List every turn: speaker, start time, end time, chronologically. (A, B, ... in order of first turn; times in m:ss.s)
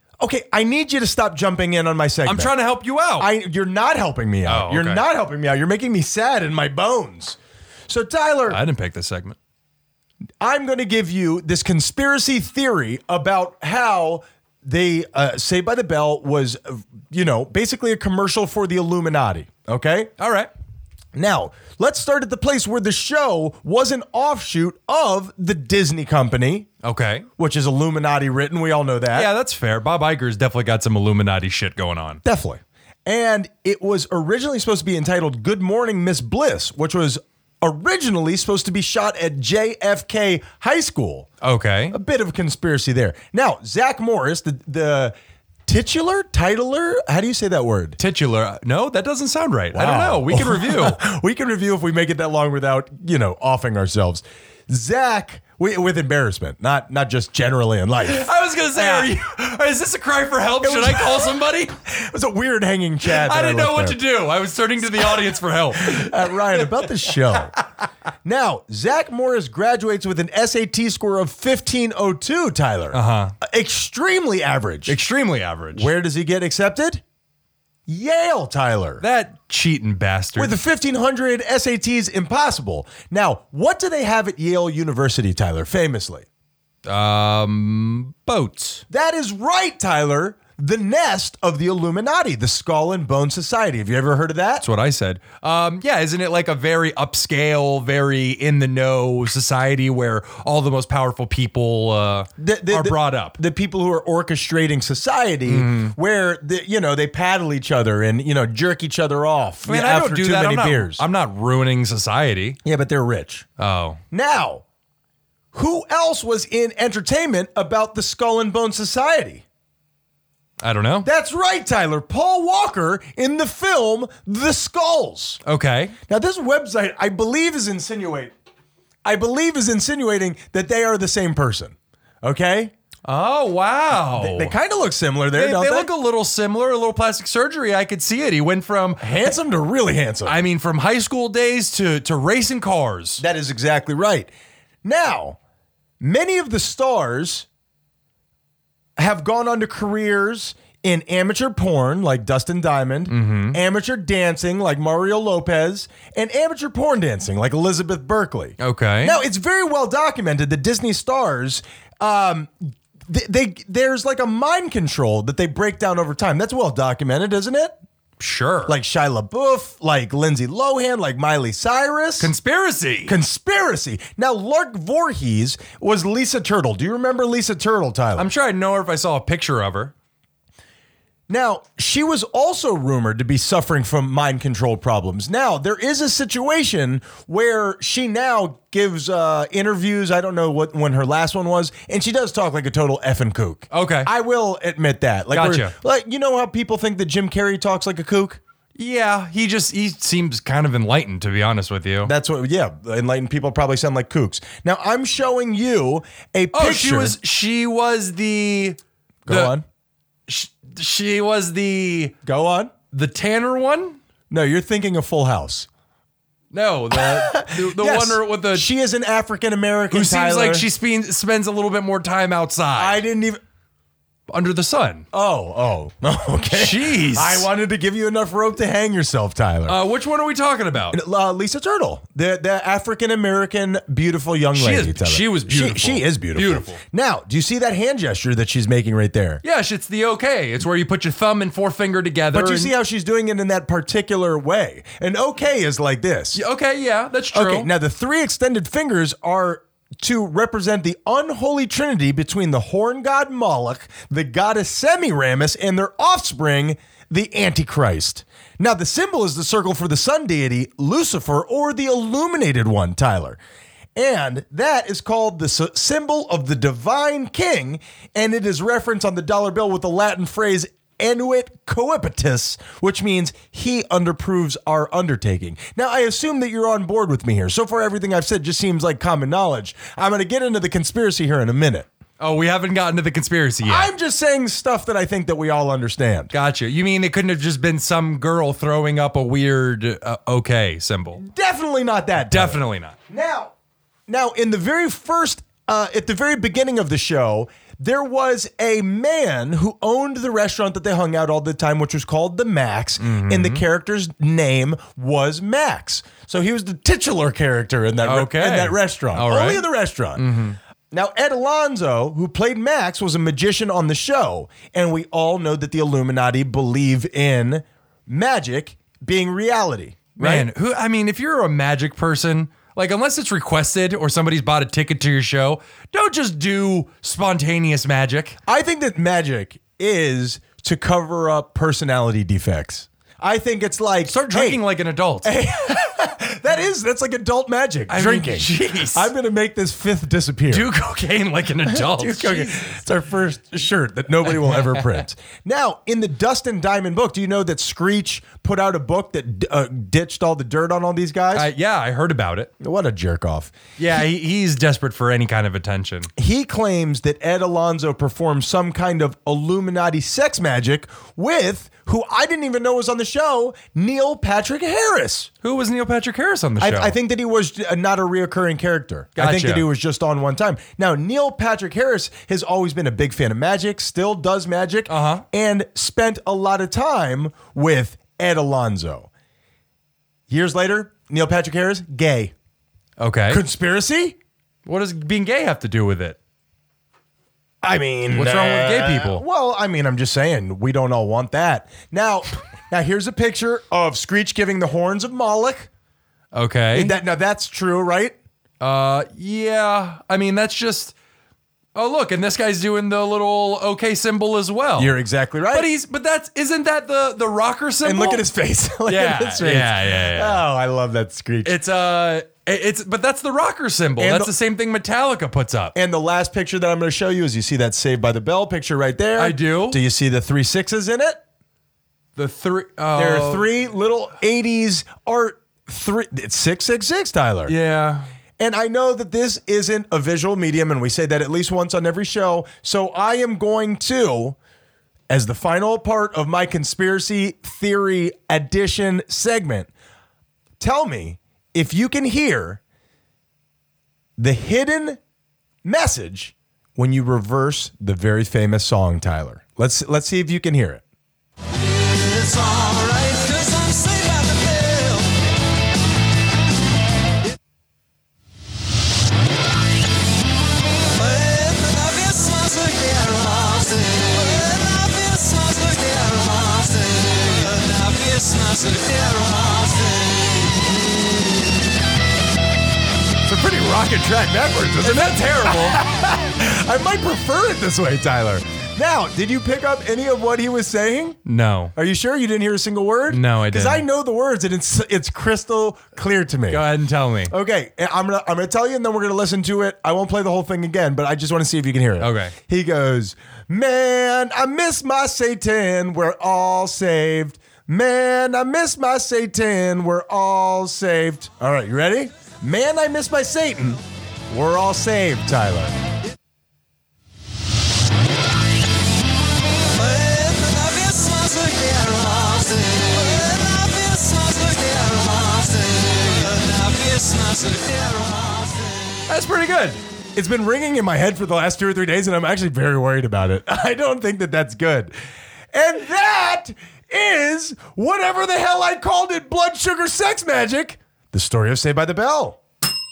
0:00.2-0:02.6 A
0:02.2-0:03.3 B
0:03.2-0:07.4 A
0:04.5-0:05.0 B
0:07.9-0:08.6 A
0:08.5-0:09.4 B
0:10.4-0:20.1 A
0:20.2-0:20.5 B
0:21.1-0:26.7 A
0:26.8-0:27.3 B
0:27.4-0:29.3 A
0:29.1-0:32.2 B
0:32.2-0:41.3 A
0:41.4-0:42.0 B
0:41.9-0:45.2 A
0:45.7-0:48.0 A
0:48.0-0:51.0 B
0:49.7-0:59.1 A
0:58.0-1:01.7 B
1:00.6-1:04.0 A
1:03.0-1:07.6 B
1:05.8-1:07.5 A
1:08.2-1:15.0 A
1:12.9-1:13.4 B
1:14.9-1:15.9 B
1:15.8-1:17.0 A
1:17.9-1:19.0 A
1:19.0-1:20.6 B
1:20.4-1:26.3 A
1:26.9-1:28.8 B
1:28.9-1:34.6 A
1:34.6-1:43.4 B
1:42.4-1:51.0 A
1:45.5-1:46.0 B
1:49.7-1:52.6 B
1:52.6-1:53.5 A
1:53.6-1:54.0 B
1:54.1-1:54.6 A
1:55.5-1:59.4 A
2:00.6-2:01.1 B
2:01.0-2:05.4 A
2:05.4-2:06.0 B
2:06.1-2:08.3 A
2:09.0-2:12.7 A
2:13.1-2:14.6 B
2:14.0-2:15.9 A
2:15.4-2:19.0 B
2:19.0-2:20.4 A
2:20.3-2:23.2 B
2:23.2-2:24.3 A
2:24.8-2:25.4 A
2:26.0-2:27.5 A
2:29.0-2:47.8 A
2:33.1-2:33.6 B
2:38.6-2:39.2 B
2:48.2-2:48.7 B
2:48.7-2:52.3 A
2:52.2-2:53.1 B
2:53.1-2:58.3 A
2:58.2-2:59.9 B
3:01.3-3:18.4 A
3:13.7-3:14.1 B
3:15.3-3:15.8 B
3:18.8-3:22.1 B
3:22.0-3:27.2 A
3:26.5-3:29.6 B
3:29.3-3:29.6 A
3:30.3-3:32.2 B
3:32.2-3:32.7 A
3:32.9-3:34.0 B
3:34.3-3:35.7 A
3:36.5-3:38.7 B
3:36.9-3:40.7 A
3:39.9-3:43.0 B
3:42.8-3:43.4 A
3:44.3-3:45.1 B
3:45.1-3:49.8 A
3:46.5-3:47.5 B
3:49.7-3:51.0 B
3:50.9-3:59.4 A
3:54.6-3:56.8 B
3:59.4-4:02.7 B
4:02.3-4:06.4 A
4:06.4-4:07.7 B
4:07.3-4:23.4 A
4:24.0-4:41.9 A
4:42.2-4:43.9 B
4:43.6-4:46.3 A
4:46.3-4:51.2 B
4:51.2-4:53.5 A
4:52.3-4:53.0 B
4:54.1-5:10.2 A
5:03.0-5:03.6 B
5:08.0-5:09.6 B
5:10.2-5:10.6 B
5:10.9-5:20.5 A
5:20.2-5:28.4 B
5:28.5-5:34.6 A
5:34.1-5:35.3 B
5:35.2-5:40.7 A
5:37.9-5:39.1 B
5:40.5-5:42.7 B
5:41.7-5:51.5 A
5:44.5-5:44.8 B
5:51.3-5:52.5 B
5:52.6-5:53.5 A
5:53.8-5:56.1 B
5:56.2-6:05.3 A
6:05.4-6:07.0 B
6:06.6-6:19.1 A
6:09.2-6:09.6 B
6:14.9-6:15.2 B
6:20.3-6:22.3 A
6:23.0-6:23.4 B
6:23.3-6:24.2 A
6:24.7-6:26.2 B
6:27.6-6:35.7 A
6:28.1-6:29.2 B
6:36.3-6:37.0 B
6:36.7-6:38.2 A
6:38.6-6:41.0 B
6:41.8-6:44.9 B
6:44.8-6:45.7 A
6:45.5-6:48.2 B
6:47.8-6:51.6 A
6:48.9-6:50.4 B
6:51.4-6:55.7 B
6:54.0-6:54.3 A
6:55.8-7:01.2 A
6:59.2-6:59.8 B
7:02.2-7:03.5 B
7:03.0-7:07.5 A
7:07.5-7:08.1 B
7:08.4-7:14.4 A
7:15.1-7:19.7 A
7:20.6-7:22.6 A
7:24.2-7:25.0 A
7:25.6-7:30.8 A
7:32.0-7:35.1 B
7:41.0-7:50.7 B
7:53.2-8:01.2 A
7:54.8-7:55.8 B
8:01.2-8:01.7 B
8:01.8-8:06.6 A
8:03.1-8:03.8 B
8:06.5-8:07.3 B
8:07.3-8:25.8 A
8:12.0-8:12.3 B
8:29.8-8:39.8 B
8:40.2-8:44.9 A
8:45.5-8:52.4 A